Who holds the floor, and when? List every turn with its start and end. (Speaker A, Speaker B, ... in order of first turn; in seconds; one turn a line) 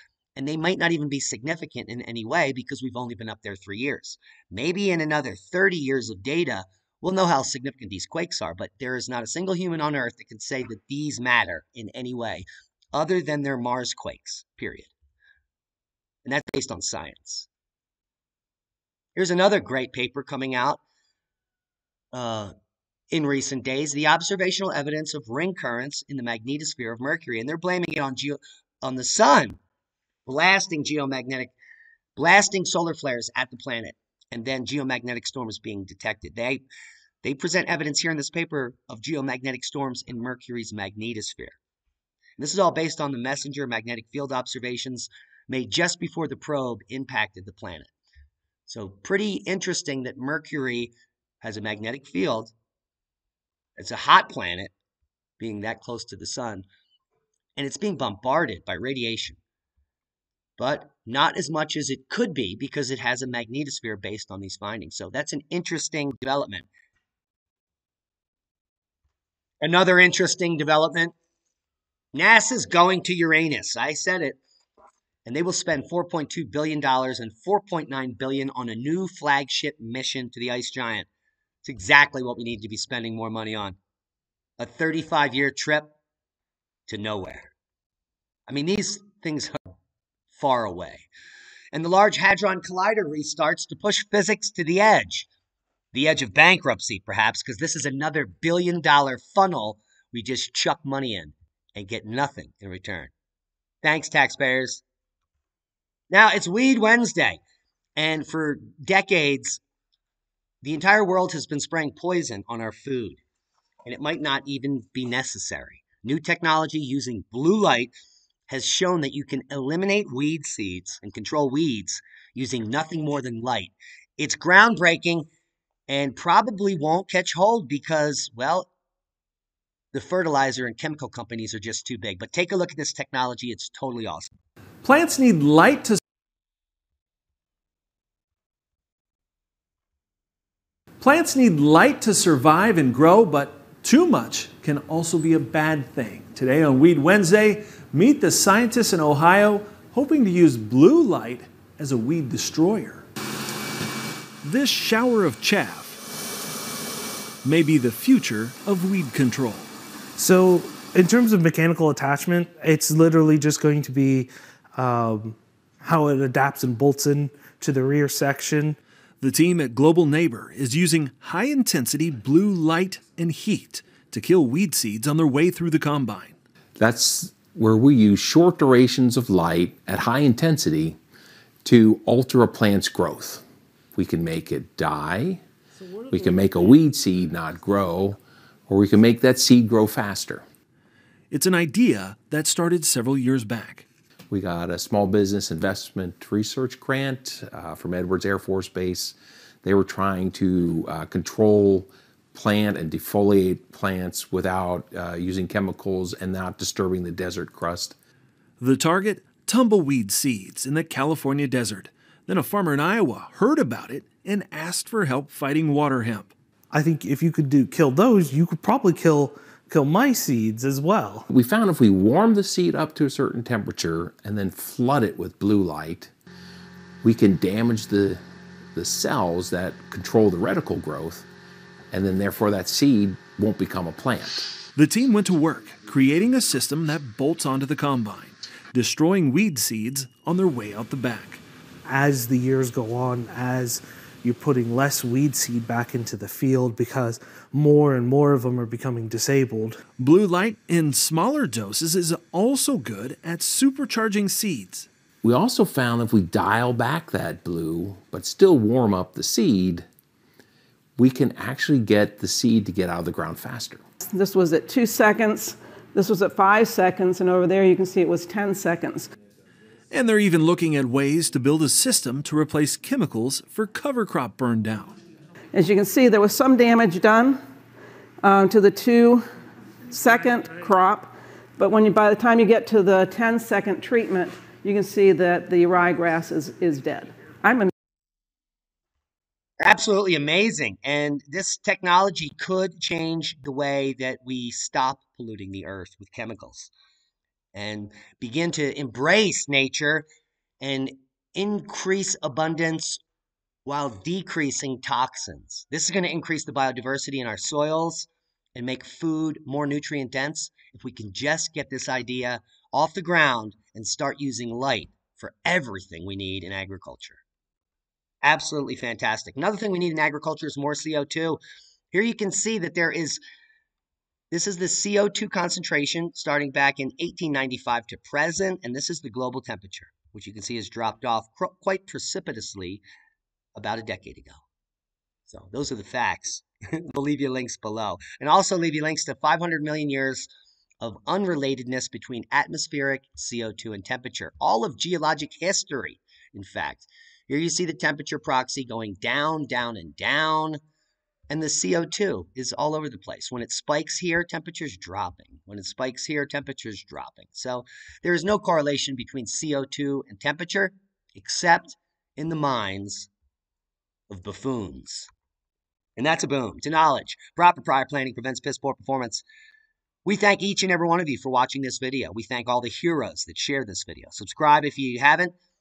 Speaker A: 0.3-14.9
Speaker A: 16.2-17.5
Speaker A: 19.1-20.8
Speaker A: 22.1-22.5
Speaker A: 23.1-29.6
Speaker A: 30.2-31.5
Speaker A: 32.1-36.6
Speaker A: 37.2-41.6
Speaker A: 42.4-47.9
Speaker A: 48.7-52.5
Speaker A: 53.8-54.7
Speaker A: 55.4-56.6
Speaker A: 57.6-59.4
Speaker A: 60.6-66.7
Speaker A: 69.6-71.1
Speaker A: 72.1-74.4
Speaker A: 75.2-81.1
Speaker A: 81.6-83.8
Speaker A: 84.6-85.9
Speaker A: 86.9-87.5
Speaker A: 88.5-89.6
Speaker A: 90.3-91.1
Speaker A: 91.7-95.3
Speaker A: 95.9-103.1
Speaker A: 103.8-104.8
Speaker A: 106.1-107.4
Speaker A: 108.0-109.6
Speaker A: 110.6-113.2
Speaker A: 113.8-117.9
Speaker A: 118.5-125.3
Speaker A: 125.9-128.7
Speaker A: 129.9-134.3
Speaker B: 134.8-136.0
Speaker B: 141.0-153.1
Speaker B: 154.4-156.0
Speaker B: 157.4-159.7
Speaker C: 160.2-168.8
Speaker B: 169.2-176.3
Speaker D: 176.8-181.0
Speaker D: 181.6-183.4
Speaker D: 183.9-185.4
Speaker D: 186.1-190.4
Speaker B: 191.3-193.8
Speaker D: 194.3-207.9
Speaker B: 208.6-216.3
Speaker C: 216.7-221.3
Speaker D: 221.3-226.1
Speaker D: 227.0-228.2
Speaker D: 228.7-231.3
Speaker D: 231.9-234.5
Speaker B: 234.7-241.4
Speaker C: 241.8-249.8
Speaker B: 250.0-254.9
Speaker D: 255.2-259.9
Speaker D: 261.0-263.8
Speaker E: 264.1-269.1
Speaker B: 269.9-275.0
Speaker E: 275.5-277.4
Speaker E: 278.2-279.2
Speaker E: 279.9-287.7
Speaker A: 289.6-296.7
Speaker A: 297.5-300.1
Speaker A: 300.6-303.0
Speaker A: 303.6-317.2
Speaker A: 318.2-321.4
Speaker A: 321.9-323.2
Speaker A: 324.3-332.8
Speaker A: 333.5-334.4
Speaker A: 335.3-340.3
Speaker A: 340.8-350.6
Speaker A: 351.3-363.1
Speaker A: 364.1-365.1
Speaker A: 366.0-369.2
Speaker A: 370.0-375.3